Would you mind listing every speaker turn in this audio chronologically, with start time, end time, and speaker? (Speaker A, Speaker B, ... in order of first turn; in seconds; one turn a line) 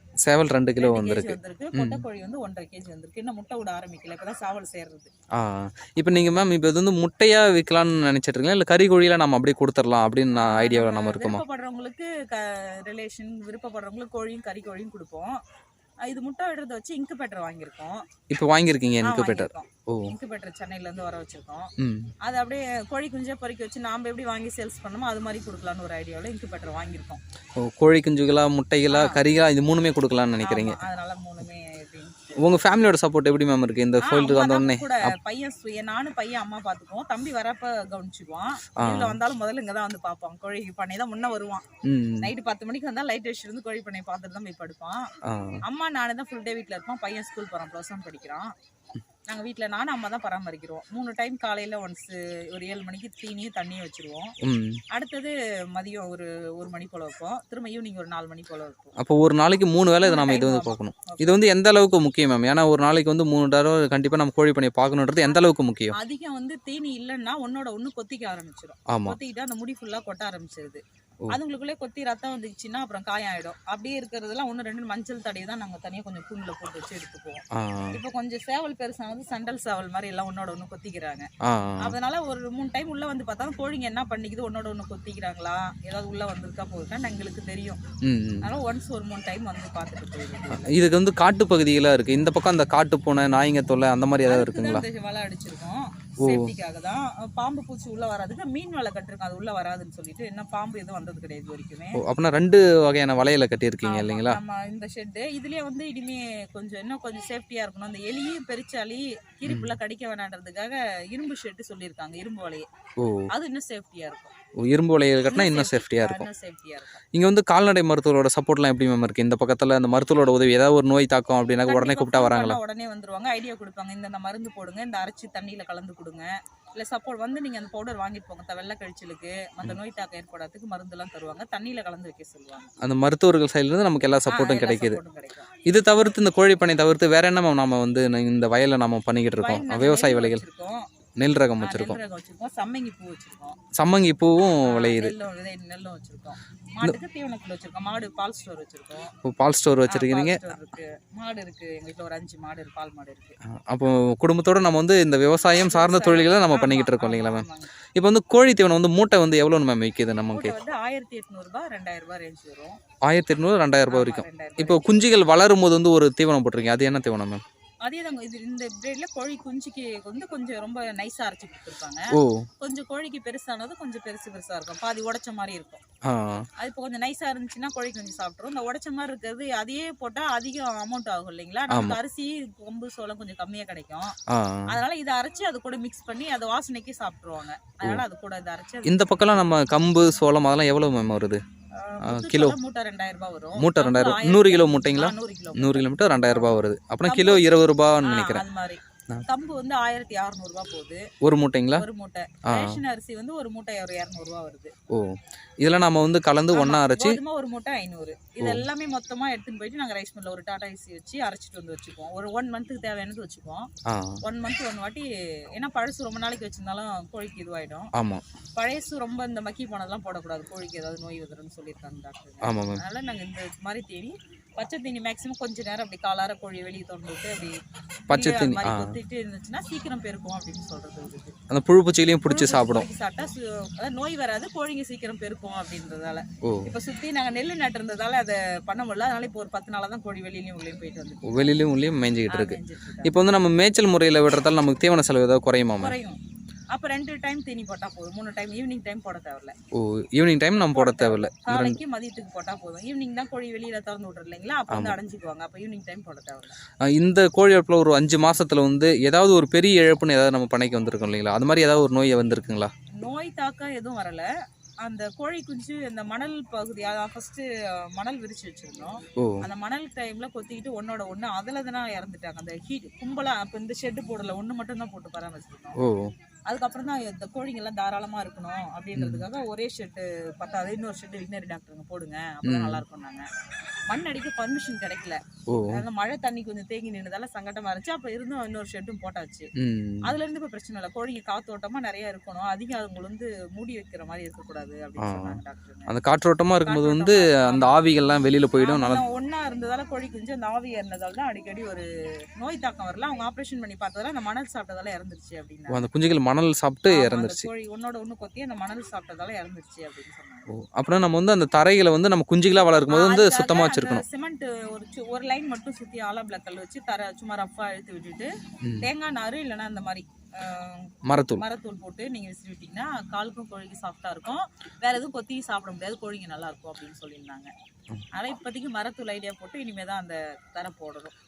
Speaker A: 0.2-2.0
Speaker B: 0.8-5.1
Speaker A: 5.3-11.4
Speaker B: 10.3-15.4
Speaker B: 16.0-18.1
Speaker A: 18.3-20.1
Speaker B: 19.0-27.2
Speaker A: 21.8-22.1
Speaker A: 27.6-30.8
Speaker B: 28.9-29.2
Speaker B: 30.4-32.4
Speaker A: 32.4-35.1
Speaker B: 34.0-41.6
Speaker A: 38.8-39.2
Speaker A: 41.8-42.3
Speaker B: 42.2-45.1
Speaker A: 45.2-45.6
Speaker B: 45.6-48.5
Speaker B: 49.3-54.3
Speaker A: 54.4-54.8
Speaker B: 54.9-58.9
Speaker A: 59.0-65.9
Speaker B: 60.0-61.4
Speaker B: 65.3-81.3
Speaker A: 68.9-69.2
Speaker A: 77.5-78.0
Speaker A: 81.4-82.0
Speaker B: 81.8-87.8
Speaker A: 88.0-88.5
Speaker B: 88.4-90.7
Speaker A: 90.5-94.8
Speaker B: 94.2-102.0
Speaker A: 96.2-96.5
Speaker A: 102.0-104.4
Speaker B: 103.8-112.7
Speaker A: 109.5-109.8
Speaker A: 113.0-113.3
Speaker B: 113.3-114.3
Speaker A: 114.6-116.3
Speaker B: 115.3-117.0
Speaker A: 117.1-122.6
Speaker B: 121.6-132.7
Speaker A: 132.8-135.0
Speaker B: 134.3-135.5
Speaker A: 135.6-140.4
Speaker B: 139.3-140.9
Speaker A: 141.2-142.0
Speaker B: 141.6-143.6
Speaker A: 143.8-145.2
Speaker B: 144.6-149.1
Speaker A: 149.2-150.4
Speaker B: 149.9-153.4
Speaker A: 153.4-160.5
Speaker B: 155.6-157.7
Speaker B: 160.3-162.8
Speaker A: 163.1-167.4
Speaker B: 163.9-165.0
Speaker B: 167.8-175.8
Speaker A: 172.1-172.5
Speaker A: 176.1-176.5
Speaker B: 176.6-184.2
Speaker A: 181.7-182.0
Speaker A: 184.3-184.7
Speaker B: 184.7-189.5
Speaker A: 188.8-191.4
Speaker B: 191.7-201.1
Speaker A: 192.0-192.6
Speaker A: 193.6-198.4
Speaker A: 201.2-201.8
Speaker B: 201.7-204.7
Speaker A: 202.5-202.8
Speaker A: 204.9-207.2
Speaker B: 206.5-213.7
Speaker A: 213.8-214.2
Speaker B: 214.2-217.9
Speaker A: 217.9-218.2
Speaker B: 218.6-227.6
Speaker A: 222.4-222.8
Speaker A: 228.1-229.0
Speaker B: 228.1-231.3
Speaker A: 231.5-232.8
Speaker B: 232.2-241.6
Speaker A: 236.4-236.7
Speaker A: 241.2-245.9
Speaker B: 242.3-243.1
Speaker B: 245.8-246.2
Speaker B: 246.7-249.6
Speaker A: 249.7-251.8
Speaker B: 250.7-256.6
Speaker A: 254.7-255.0
Speaker A: 256.8-262.7
Speaker B: 262.9-264.3
Speaker B: 264.8-275.8
Speaker A: 269.2-269.4
Speaker A: 275.8-276.1
Speaker B: 276.5-283.3
Speaker A: 278.9-279.2
Speaker A: 282.4-282.8
Speaker B: 283.9-289.5
Speaker A: 285.5-285.8
Speaker A: 289.6-290.1
Speaker B: 290.0-295.9
Speaker A: 295.0-299.0
Speaker B: 296.6-305.9
Speaker A: 305.7-307.5
Speaker B: 306.9-310.5
Speaker A: 310.5-314.0
Speaker B: 312.8-327.5
Speaker A: 318.6-318.9
Speaker A: 321.1-321.4
Speaker B: 328.1-331.1